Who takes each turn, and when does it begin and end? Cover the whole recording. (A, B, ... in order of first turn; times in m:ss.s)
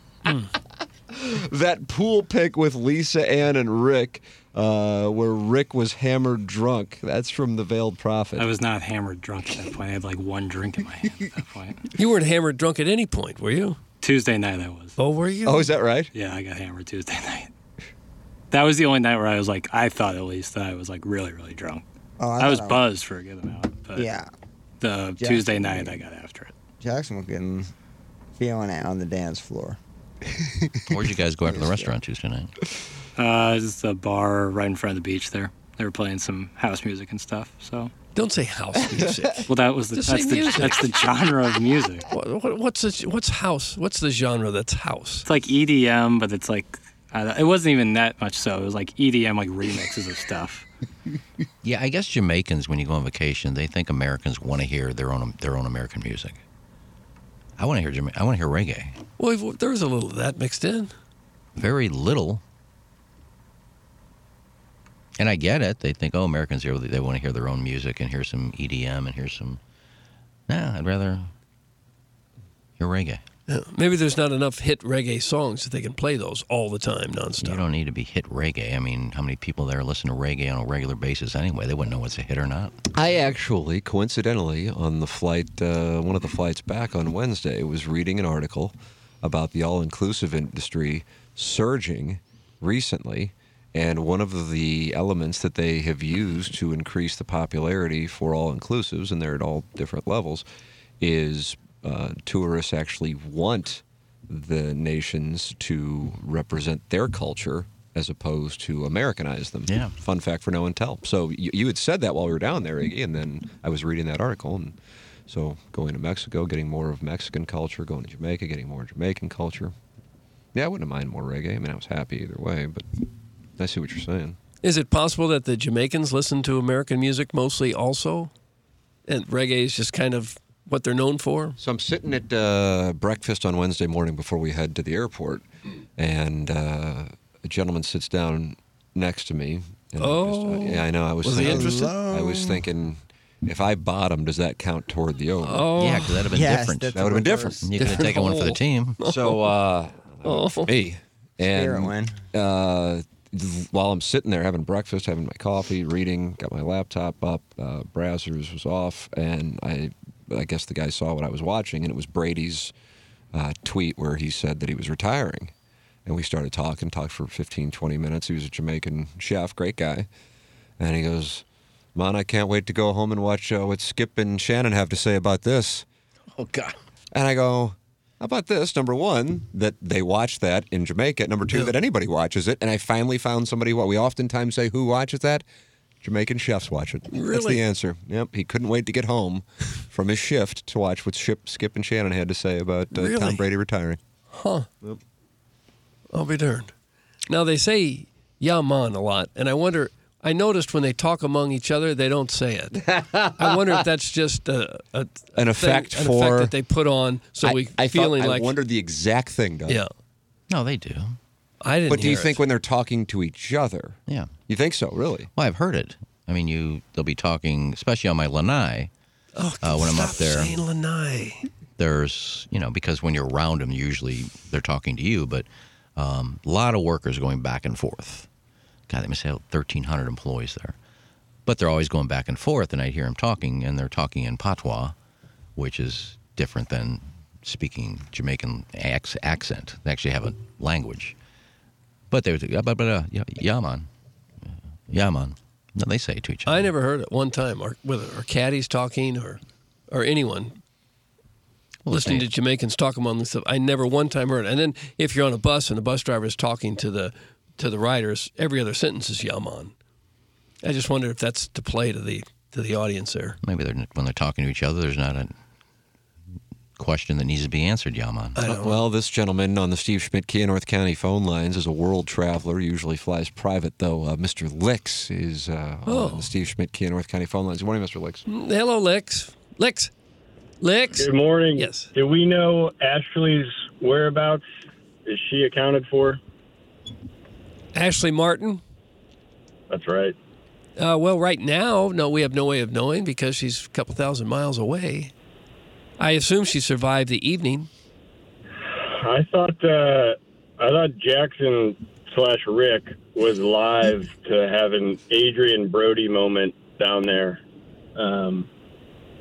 0:01.1-0:08.5 A
0:08.4-0:11.8 B
0:12.0-0:13.8 C
0:14.0-0:15.0 B
0:15.0-0:15.7 C
0:15.4-0:16.1 A
0:16.1-0:17.5 B
0:18.5-0:21.8 B
0:22.2-0:22.8 D
0:22.4-0:24.1 B
0:23.9-0:24.3 D
0:24.8-0:26.5 B
0:25.2-0:26.0 D
0:26.8-0:27.7 D
0:28.4-0:29.8 D
0:30.9-0:32.5 E
0:31.4-0:31.9 D
0:33.2-0:37.9 B
0:38.1-0:41.0 C
0:39.5-0:42.1 B
0:42.1-0:45.3 C
0:45.2-0:50.6 B
0:51.6-0:56.4 E
0:57.6-0:59.0 E
0:59.2-1:00.9 C
1:01.6-1:02.4 E
1:05.2-1:09.6 E
1:10.5-1:11.3 E
1:12.8-1:13.2 E
1:13.5-1:17.6 C
1:17.4-1:22.7 E
1:22.9-1:40.4 A
1:41.0-1:54.8 A
1:49.7-1:49.9 E
1:55.3-1:59.7 A
2:00.5-2:02.8 A
2:03.6-2:04.4 A
2:04.6-2:08.3 C
2:09.1-2:11.6 C
2:11.6-2:15.4 A
2:16.0-2:25.7 A
2:20.0-2:22.0 C
2:21.4-2:22.6 D
2:25.4-2:26.3 C
2:25.8-2:27.0 E
2:26.3-2:27.9 D
2:26.9-2:28.4 A
2:27.6-2:29.0 E
2:27.8-2:28.4 C
2:29.0-2:29.4 C
2:29.0-2:42.7 A
2:30.2-2:30.7 C
2:31.4-2:32.2 D
2:43.3-2:45.5 A
2:46.0-2:50.1 A
2:50.8-2:51.4 A
2:51.9-2:55.8 A
2:56.4-2:56.7 E
2:57.1-3:05.4 A
3:06.0-3:14.0 A
3:07.1-3:07.6 C
3:12.9-3:13.4 C
3:14.3-3:14.7 C
3:16.1-3:16.7 C
3:17.3-3:22.8 C
3:22.8-3:23.8 A
3:23.3-3:28.6 C
3:25.3-3:26.5 A
3:27.4-3:29.8 A
3:29.7-3:29.9 C
3:30.5-3:31.2 E
3:31.6-3:32.4 C
3:31.9-3:34.0 A
3:34.5-3:35.3 A
3:35.4-3:38.9 E
3:39.3-3:41.5 C
3:39.6-3:40.5 E
3:41.8-3:48.3 E
3:48.9-3:50.8 E
3:51.4-3:54.9 E
3:55.6-4:01.1 E
4:02.1-4:03.9 E
4:04.9-4:06.7 E
4:06.5-4:10.6 C
4:11.8-4:12.3 E
4:11.9-4:19.7 C
4:20.6-4:23.4 C
4:23.4-4:25.3 E
4:26.8-4:28.4 E
4:28.4-4:28.8 C
4:28.4-4:38.2 A
4:35.9-4:36.3 C
4:38.3-4:39.9 C
4:40.6-4:41.9 C
4:40.9-4:44.4 F
4:45.0-4:46.2 F
4:47.7-4:48.6 C
4:49.7-4:50.1 F
4:50.8-4:55.1 C
4:56.0-4:57.7 C
4:58.6-5:07.4 F
5:08.0-5:08.5 F